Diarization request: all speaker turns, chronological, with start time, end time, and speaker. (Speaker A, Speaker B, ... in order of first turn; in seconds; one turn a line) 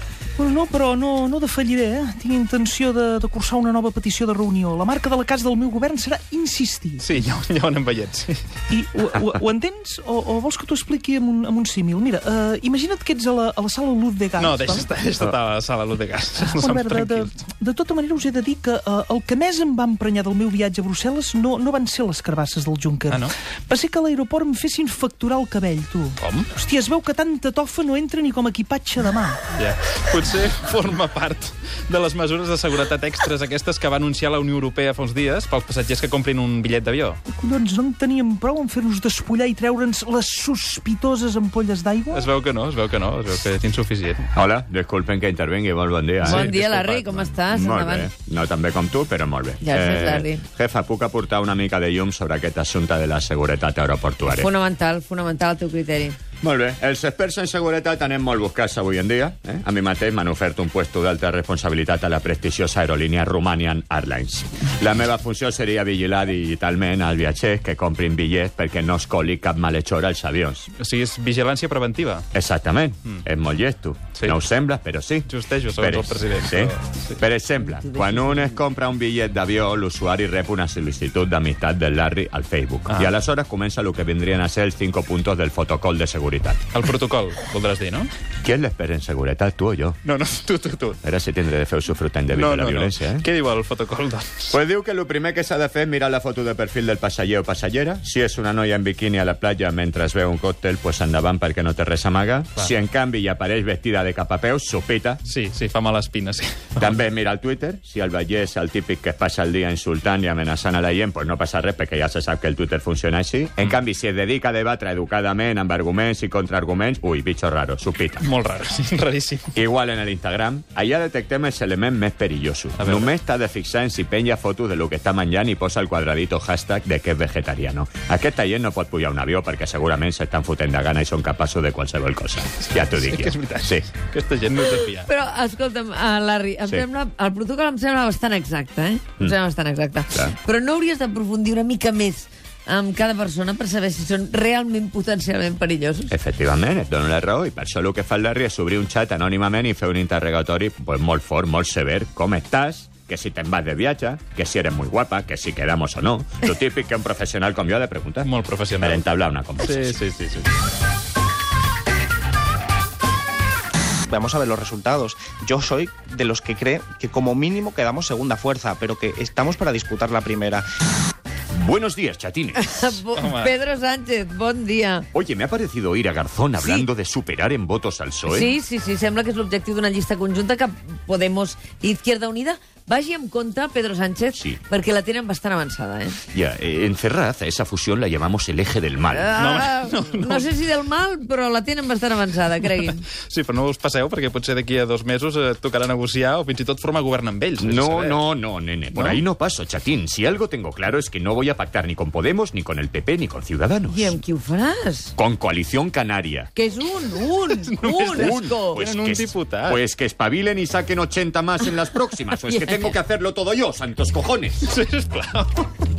Speaker A: 0.4-7.1
Speaker B: 7.0-8.4
Speaker A: 8.7-14.9
Speaker B: 14.4-17.3
Speaker A: 16.4-29.4
Speaker B: 26.2-26.5
Speaker B: 29.5-37.2
Speaker A: 37.3-42.3
Speaker B: 42.1-44.3
Speaker C: 44.3-54.5
Speaker B: 46.2-47.1
Speaker D: 46.2-48.1
Speaker D: 49.6-50.4
Speaker D: 54.4-56.2
Speaker C: 56.4-70.7
Speaker B: 70.8-72.2
Speaker C: 72.3-86.6
Speaker B: 75.2-77.2
Speaker B: 86.7-88.1
Speaker C: 88.4-90.0
Speaker B: 90.0-91.0
Speaker C: 91.0-93.2
Speaker B: 92.3-94.5
Speaker C: 94.5-105.2
Speaker B: 105.2-107.0
Speaker C: 106.8-118.3
Speaker B: 118.2-119.5
Speaker C: 119.5-133.9
Speaker B: 122.8-123.1
Speaker B: 132.7-135.1
Speaker D: 134.9-146.1
Speaker C: 146.1-160.0
Speaker B: 158.2-159.0
Speaker B: 159.6-160.5
Speaker E: 164.1-170.7
Speaker C: 171.5-172.7
Speaker D: 172.6-175.1
Speaker B: 173.1-173.5
Speaker C: 175.1-178.5
Speaker D: 176.6-176.9
Speaker D: 178.3-186.2
Speaker C: 186.3-189.3
Speaker D: 189.1-193.1
Speaker B: 189.3-190.5
Speaker B: 192.8-198.2
Speaker C: 197.6-204.2
Speaker B: 198.9-199.2
Speaker D: 203.9-205.1
Speaker C: 205.2-206.5
Speaker D: 206.5-208.8
Speaker B: 207.5-209.8
Speaker C: 208.1-214.6
Speaker D: 212.5-212.9
Speaker B: 214.6-215.8